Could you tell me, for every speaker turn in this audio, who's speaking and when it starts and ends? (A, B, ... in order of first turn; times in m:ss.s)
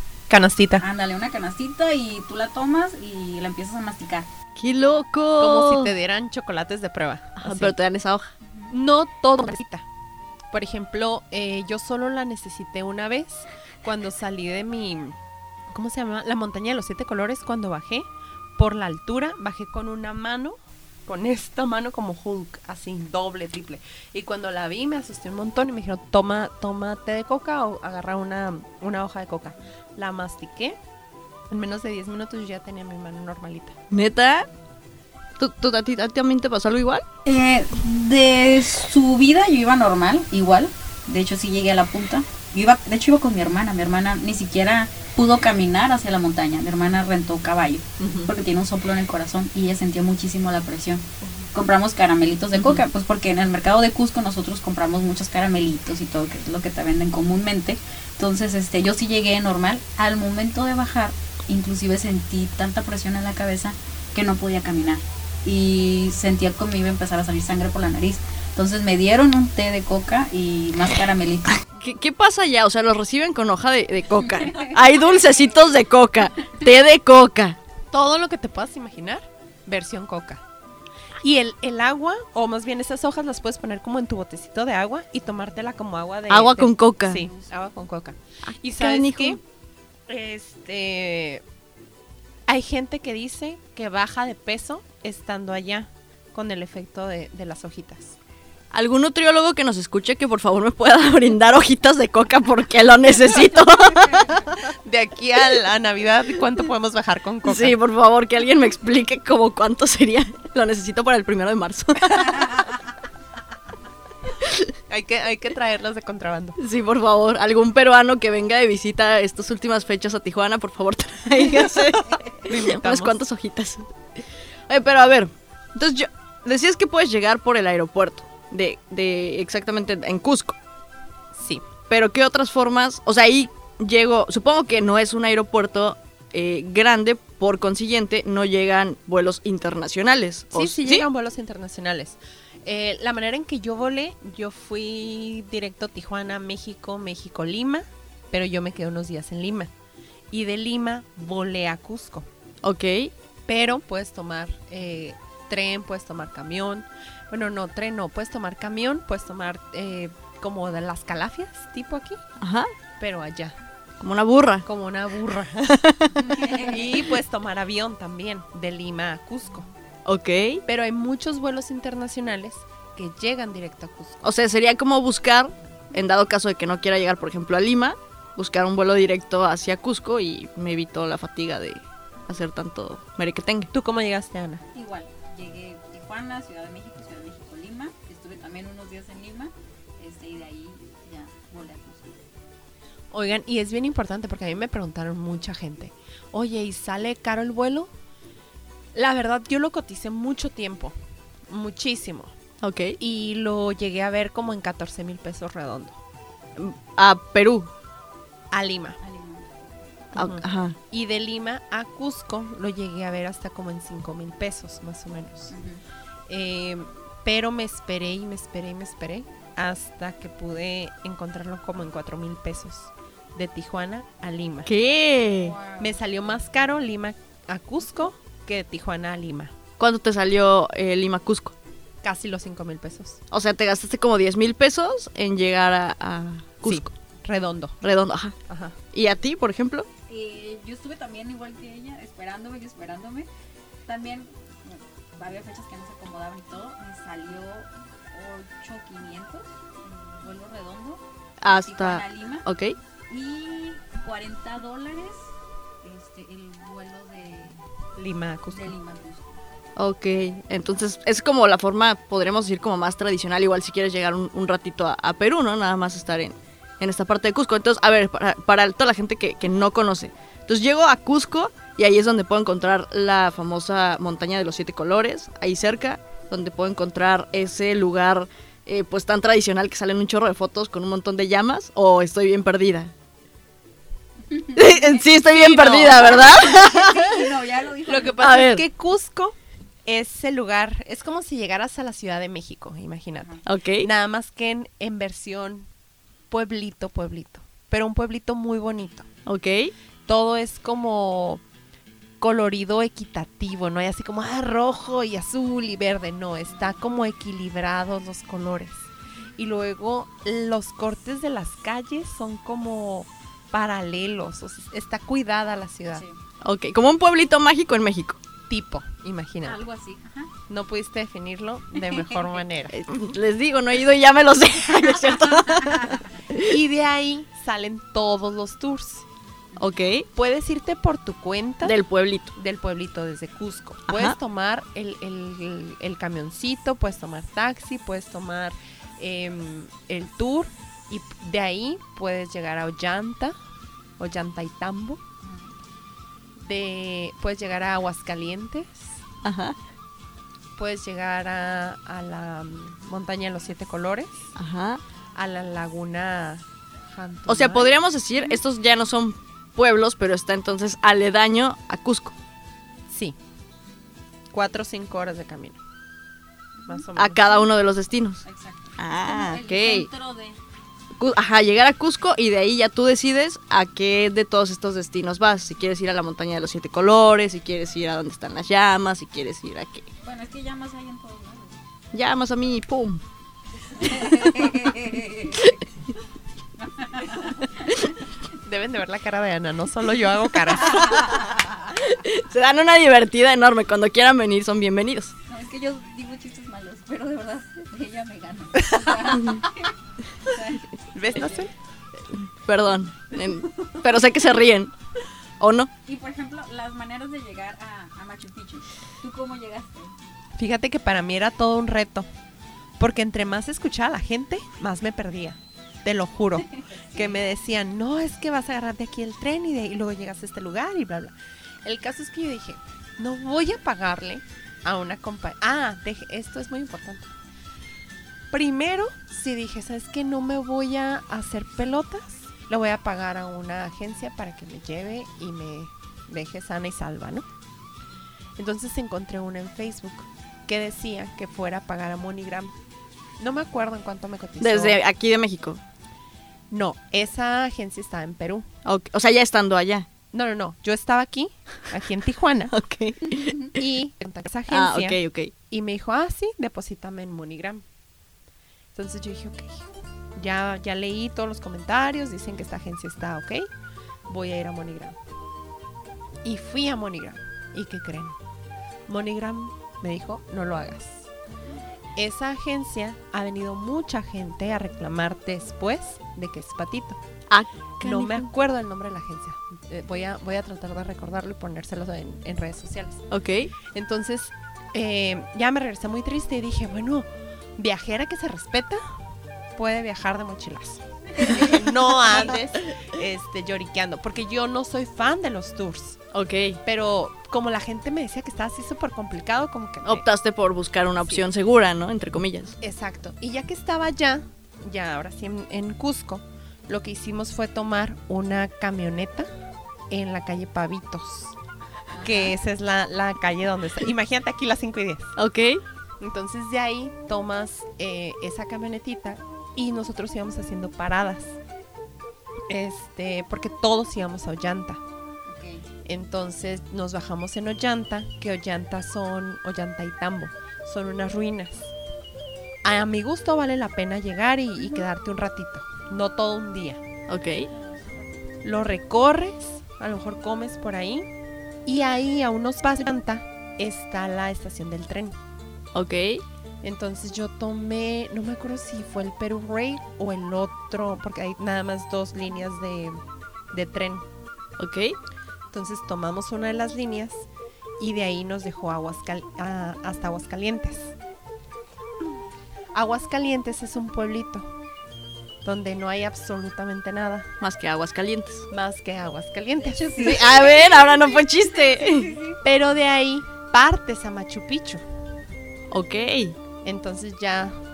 0:00.3-0:00.8 A
0:00.8-0:04.3 B
0:04.6-0:05.9 C
0:05.4-0:07.8 A
0:07.4-0:08.3 C
0:08.7-0:09.8 A
0:10.5-0:15.2 A
0:15.7-0:18.1 A
0:18.6-0:20.6 A
0:21.1-0:30.8 A
0:31.5-0:33.8 A
0:33.9-0:34.5 C
0:35.4-0:37.0 C
0:37.2-1:11.6 B
0:48.0-0:48.3 A
1:11.7-1:17.6 C
1:14.4-1:14.8 B
1:17.9-1:20.4 A
1:21.2-1:29.4 A
1:26.3-1:27.2 C
1:28.5-1:29.4 C
1:30.1-1:31.4 A
1:32.5-1:38.2 A
1:38.7-1:44.5 C
1:44.6-1:47.8 A
1:47.4-1:52.6 C
1:54.4-1:54.7 C
1:54.9-1:56.6 A
1:56.6-2:10.6 C
2:02.4-2:03.2 A
2:11.3-2:11.6 A
2:11.9-2:21.0 C
2:20.5-2:29.7 A
2:30.3-2:32.3 A
2:32.6-2:33.1 C
2:33.5-2:42.2 A
2:42.4-2:42.7 C
2:43.0-2:43.6 A
2:44.0-2:44.6 C
2:44.6-2:49.7 A
2:45.7-2:46.2 C
2:46.2-2:47.0 B
2:50.1-2:50.6 C
2:50.7-2:54.2 A
2:54.2-3:03.7 C
3:03.7-3:04.6 A
3:04.7-3:12.2 B
3:13.1-3:17.9 A
3:19.0-3:20.9 A
3:21.5-3:22.3 A
3:22.6-3:23.0 C
3:23.0-3:26.0 A
3:26.6-3:27.7 C
3:28.5-3:29.0 A
3:29.0-3:29.8 B
3:30.1-3:35.5 A
3:30.2-3:30.8 C
3:35.5-3:35.8 B
3:36.3-3:44.7 A
3:44.7-3:45.6 C
3:45.4-3:46.0 B
3:45.8-3:49.5 A
3:49.8-3:51.6 C
3:52.0-3:53.2 A
3:53.3-3:56.9 C
3:56.6-3:57.8 A
3:57.8-3:58.4 C
3:58.5-3:58.8 A
3:58.9-3:59.9 C
4:00.1-4:03.3 B
4:03.9-4:12.5 B
4:11.4-4:12.8 C
4:13.1-4:15.3 B
4:15.8-4:17.6 B
4:18.0-4:18.7 A
4:18.5-4:19.3 B
4:19.8-4:42.9 C
4:44.3-4:48.2 B
4:44.6-4:47.2 C
4:45.3-4:46.3 A
4:47.9-4:49.4 A
4:48.2-4:48.6 C
4:49.9-4:55.7 A
4:53.5-4:53.9 C
4:56.3-4:59.1 A
4:59.3-4:59.7 C
5:00.1-5:01.4 A
5:02.2-5:16.0 A
5:15.9-5:16.2 B
5:16.4-5:18.2 C
5:18.5-5:19.6 A
5:19.4-5:20.3 B
5:20.5-5:22.8 A
5:21.9-5:22.4 B
5:22.7-5:26.6 C
5:25.5-5:26.0 B
5:26.4-5:29.1 A
5:29.6-5:30.1 C
5:30.2-5:31.8 A
5:31.6-5:32.3 C
5:32.4-5:43.4 A
5:33.9-5:34.2 C
5:44.0-5:45.0 A
5:45.2-5:45.5 B
5:46.4-5:48.9 A
5:49.2-5:49.6 C
5:50.6-5:54.3 A
5:54.4-5:54.8 C
5:55.2-5:57.7 A
5:57.3-6:02.2 C
6:02.9-6:03.2 A
6:04.3-6:05.6 A
6:06.7-6:07.3 A
6:07.0-6:08.2 C
6:08.2-6:10.4 B
6:08.8-6:09.9 C
6:11.0-6:19.9 C
6:20.0-6:21.6 B
6:21.9-6:23.0 C
6:23.8-6:25.5 B
6:26.8-6:27.8 B
6:28.4-6:31.0 A
6:31.7-6:35.1 C
6:35.3-6:39.7 B
6:40.3-6:41.5 B
6:41.0-6:41.5 A
6:42.1-6:44.7 C
6:45.4-6:45.7 C
6:45.9-6:49.9 B
6:50.4-6:52.1 A
6:52.8-7:01.1 A
6:56.5-6:57.2 B
7:01.6-7:07.1 A
7:08.3-7:17.2 A
7:18.4-7:22.5 A
7:23.2-7:24.8 A
7:24.4-7:25.6 C
7:26.5-7:28.5 A
7:28.6-7:29.9 C
7:30.1-7:32.5 A
7:32.5-7:33.5 C
7:33.2-7:33.5 B
7:33.6-7:35.0 A
7:34.5-7:35.3 C
7:35.5-7:37.6 A
7:38.8-7:43.5 A
7:44.1-7:45.0 A
7:46.2-7:48.2 A
7:48.9-7:51.1 A
7:52.0-7:57.0 A
7:57.3-7:58.3 C
7:57.8-8:03.1 A
8:03.1-8:03.5 C
8:03.7-8:08.8 A
8:09.6-8:16.0 A
8:11.2-8:11.6 B
8:16.1-8:16.6 C
8:16.6-8:20.0 A
8:19.8-8:22.6 C
8:22.6-8:29.3 A
8:29.9-8:31.4 A
8:31.9-8:32.4 B
8:32.0-8:35.1 A
8:35.2-8:35.6 C
8:36.0-8:41.4 A
8:42.5-8:44.8 A
8:45.3-8:45.6 B
8:45.8-8:51.7 A
8:52.6-8:56.8 A
8:57.1-8:57.5 C
8:58.4-9:01.1 A
9:01.7-9:05.2 A
9:05.8-9:06.2 C
9:06.6-9:13.0 A
9:13.5-9:14.0 A
9:14.6-9:15.0 C
9:15.5-9:17.2 A
9:17.8-9:20.9 A
9:22.7-9:24.5 A
9:25.4-9:27.3 A
9:27.4-9:28.5 C
9:28.5-9:30.2 A
9:29.6-9:32.4 B
9:30.0-9:32.2 C
9:32.4-9:34.8 A
9:35.7-9:36.4 C
9:36.6-9:37.6 A